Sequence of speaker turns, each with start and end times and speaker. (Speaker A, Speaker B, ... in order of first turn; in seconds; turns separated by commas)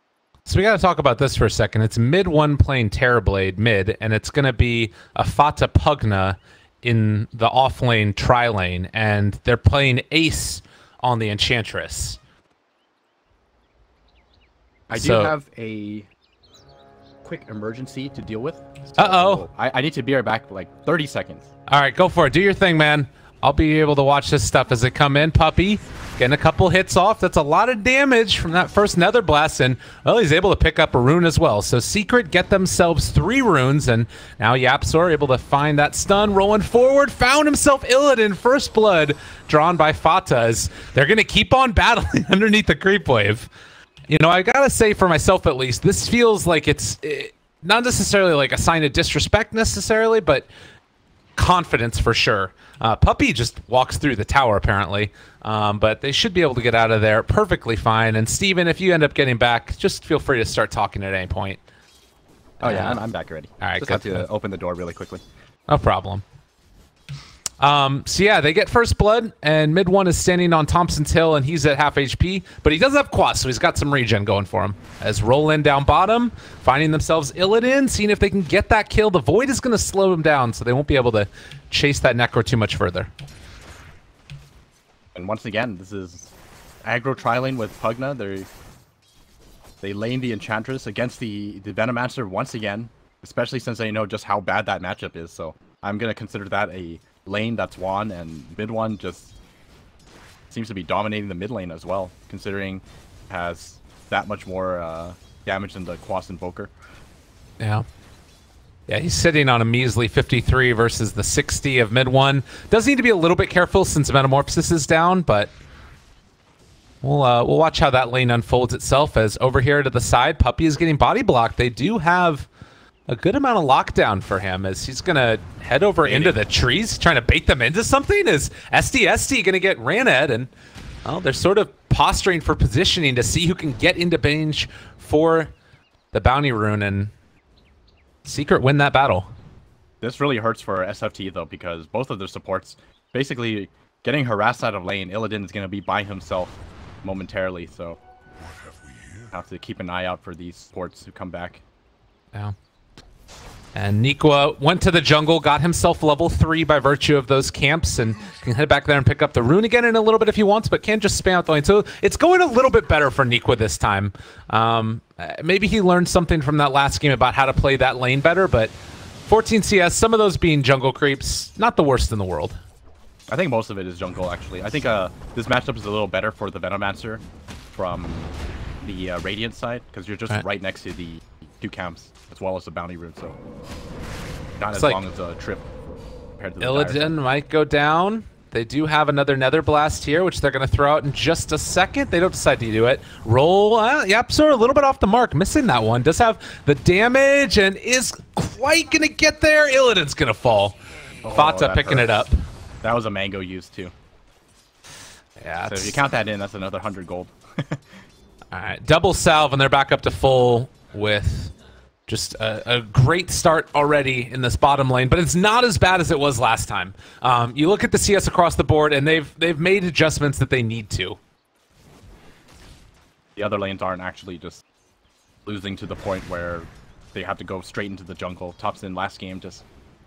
Speaker A: 0.5-12.2, Speaker B: 14.9-16.1, Speaker A: 14.9-15.3, Speaker B: 17.2-21.5, Speaker A: 19.0-19.4, Speaker A: 21.7-43.5, Speaker A: 44.1-50.5, Speaker A: 51.4-61.6, Speaker B: 62.6-65.2, Speaker A: 62.6-63.0, Speaker A: 63.6-64.3, Speaker A: 65.7-66.2, Speaker A: 67.6-83.1, Speaker B: 85.1-86.3, Speaker B: 86.8-88.5, Speaker B: 89.8-99.3, Speaker B: 100.5-106.7, Speaker A: 107.6-107.8, Speaker A: 108.9-115.5, Speaker A: 117.0-122.5, Speaker A: 123.1-130.5, Speaker B: 126.0-126.4, Speaker A: 131.0-135.5, Speaker A: 136.1-137.1, Speaker A: 138.2-139.3, Speaker B: 140.0-148.0, Speaker B: 149.3-151.6, Speaker A: 153.7-168.7, Speaker A: 169.2-172.6, Speaker B: 173.3-177.2, Speaker B: 177.7-178.3, Speaker B: 178.8-183.4, Speaker B: 184.6-187.2, Speaker A: 184.7-185.0, Speaker A: 186.6-200.8, Speaker B: 201.2-202.1, Speaker A: 201.3-202.3, Speaker B: 202.8-203.9, Speaker A: 205.4-206.0, Speaker B: 205.7-207.8, Speaker A: 208.5-211.5, Speaker A: 212.1-221.2, Speaker B: 223.4-224.6, Speaker B: 225.4-229.6